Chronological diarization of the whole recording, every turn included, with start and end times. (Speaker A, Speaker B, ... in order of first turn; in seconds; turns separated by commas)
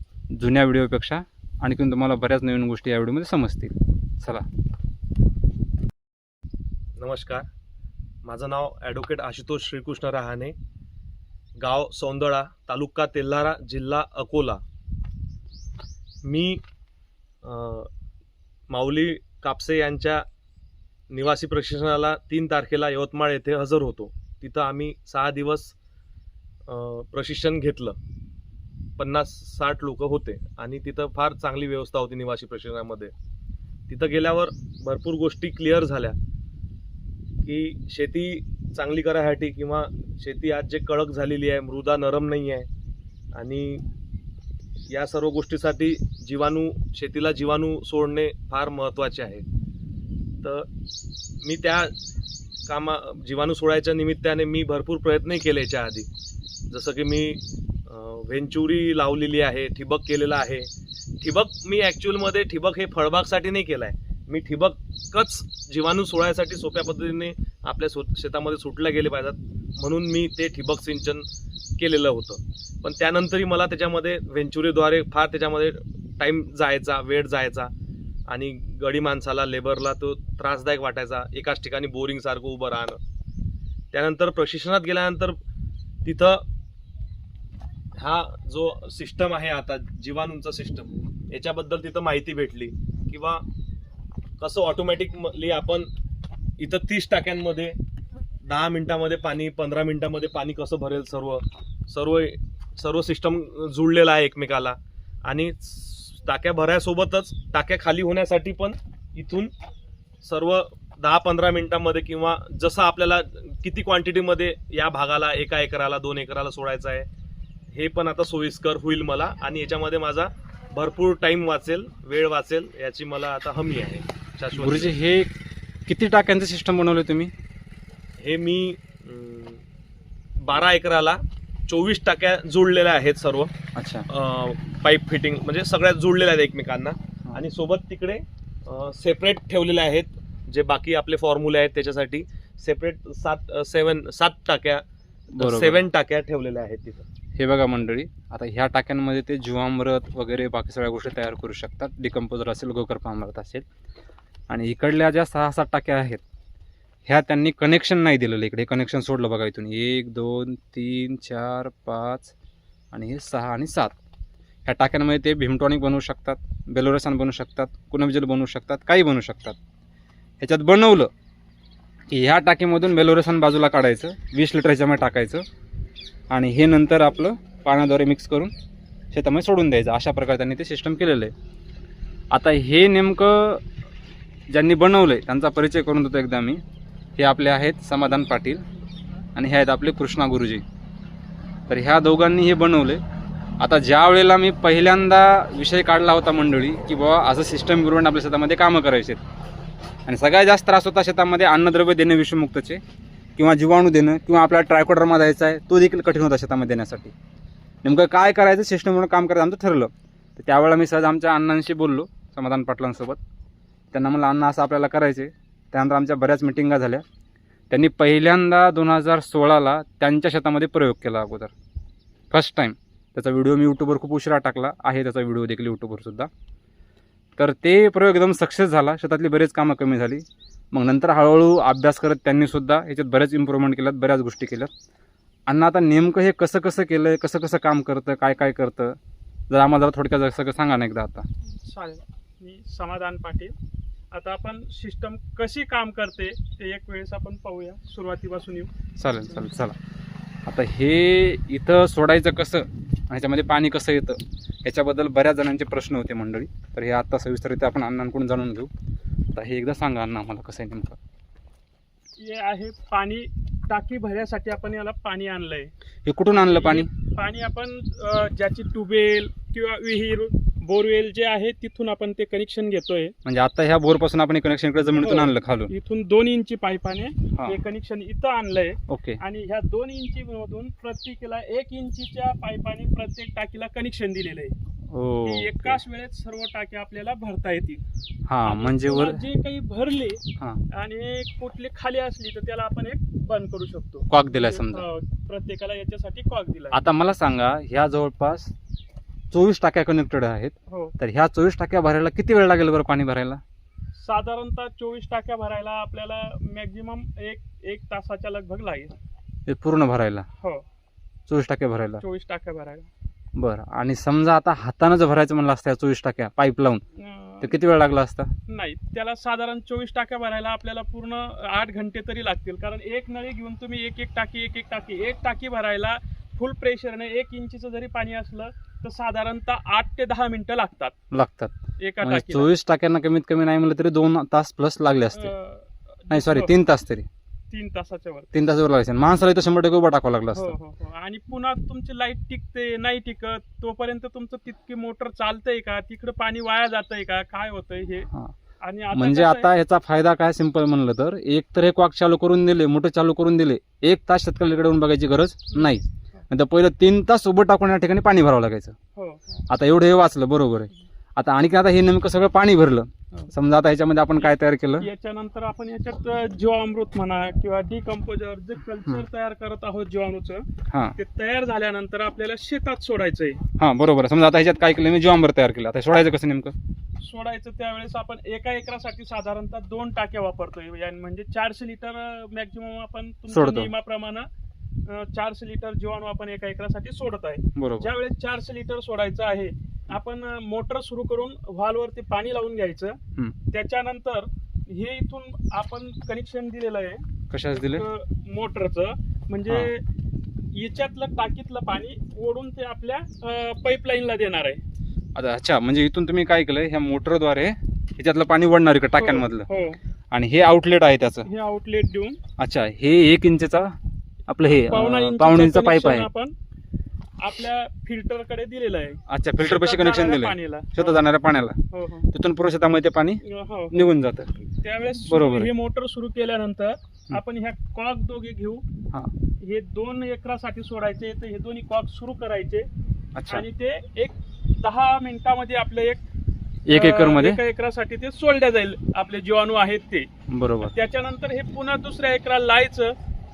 Speaker A: 0.3-4.5, Speaker B: 7.0-7.5, Speaker B: 8.2-10.6, Speaker B: 11.6-14.6, Speaker B: 16.2-16.6, Speaker B: 17.4-17.9, Speaker B: 18.7-20.2, Speaker B: 21.1-25.7, Speaker B: 26.7-28.0, Speaker B: 29.0-33.1, Speaker B: 33.9-36.2, Speaker B: 37.4-42.7, Speaker B: 43.3-43.9, Speaker B: 44.9-49.5, Speaker B: 50.4-50.7, Speaker B: 51.4-51.9, Speaker B: 52.7-56.1, Speaker B: 56.7-60.7, Speaker B: 61.2-77.7, Speaker B: 78.3-83.0, Speaker B: 83.9-85.4, Speaker B: 86.0-86.4, Speaker B: 88.0-93.4, Speaker B: 94.4-95.9, Speaker B: 96.6-97.8, Speaker B: 98.5-109.5, Speaker B: 110.2-117.1, Speaker B: 117.7-124.9, Speaker A: 124.6-125.3, Speaker A: 125.9-127.3, Speaker B: 128.2-129.6, Speaker B: 130.4-133.5, Speaker A: 133.8-134.1, Speaker B: 134.1-144.8, Speaker A: 145.4-145.8, Speaker B: 145.4-147.1, Speaker A: 147.4-153.7, Speaker A: 154.5-156.2, Speaker A: 157.1-162.3, Speaker A: 162.9-163.9, Speaker A: 164.7-169.6, Speaker A: 170.4-171.1, Speaker A: 172.1-175.4, Speaker A: 176.3-178.5, Speaker A: 179.1-181.3, Speaker A: 182.3-183.6, Speaker A: 184.5-186.6, Speaker A: 187.2-188.6, Speaker A: 189.3-190.6, Speaker A: 191.7-193.0, Speaker A: 193.6-199.2, Speaker A: 200.1-202.8, Speaker A: 203.4-207.1, Speaker A: 207.8-213.2, Speaker A: 213.9-217.1, Speaker A: 217.7-221.5, Speaker A: 222.3-226.3, Speaker A: 227.4-234.7, Speaker A: 235.5-239.0, Speaker A: 239.5-241.3, Speaker C: 241.6-243.6, Speaker C: 244.1-248.7, Speaker A: 249.0-249.8, Speaker A: 250.5-258.7, Speaker A: 259.3-261.0, Speaker C: 262.2-265.7, Speaker A: 266.1-266.9, Speaker C: 266.3-273.1, Speaker A: 273.2-275.7, Speaker C: 275.0-284.6, Speaker A: 278.9-279.2, Speaker A: 284.9-285.8, Speaker C: 285.2-287.8, Speaker A: 288.3-289.2, Speaker C: 288.4-296.8, Speaker A: 294.1-294.9, Speaker A: 296.7-298.5, Speaker A: 299.3-303.4, Speaker C: 300.7-300.9, Speaker C: 304.0-308.9, Speaker A: 309.5-310.3, Speaker A: 311.3-312.0, Speaker C: 312.0-312.9, Speaker A: 313.4-316.8, Speaker C: 317.0-317.6, Speaker A: 317.4-318.3, Speaker C: 318.5-330.9, Speaker A: 331.1-335.3, Speaker C: 331.8-332.5, Speaker C: 335.1-336.6, Speaker A: 336.1-337.1, Speaker C: 337.5-338.3, Speaker A: 338.3-340.6, Speaker C: 340.3-348.1, Speaker C: 348.6-349.5, Speaker A: 348.9-358.8, Speaker C: 359.0-359.2, Speaker A: 359.5-364.9, Speaker C: 364.2-373.4, Speaker A: 370.7-371.0, Speaker A: 373.6-376.6, Speaker C: 377.0-384.3, Speaker A: 383.3-383.7, Speaker C: 384.9-393.0, Speaker A: 387.6-387.9, Speaker C: 393.5-397.0, Speaker A: 397.3-397.9, Speaker C: 397.7-399.8, Speaker C: 400.5-404.6, Speaker A: 405.1-409.5, Speaker C: 409.0-409.8, Speaker A: 410.1-411.3, Speaker C: 411.2-412.2, Speaker A: 412.4-413.8, Speaker A: 414.3-416.1, Speaker C: 414.5-416.4, Speaker C: 417.2-421.0, Speaker A: 419.1-421.6, Speaker C: 421.7-422.1, Speaker A: 422.1-424.5, Speaker C: 423.2-423.9, Speaker C: 424.6-428.6, Speaker A: 425.1-425.5, Speaker C: 429.4-432.7, Speaker A: 433.1-433.5, Speaker C: 433.3-436.0, Speaker A: 436.7-437.4, Speaker C: 436.7-440.1, Speaker A: 440.3-440.7, Speaker C: 440.6-443.0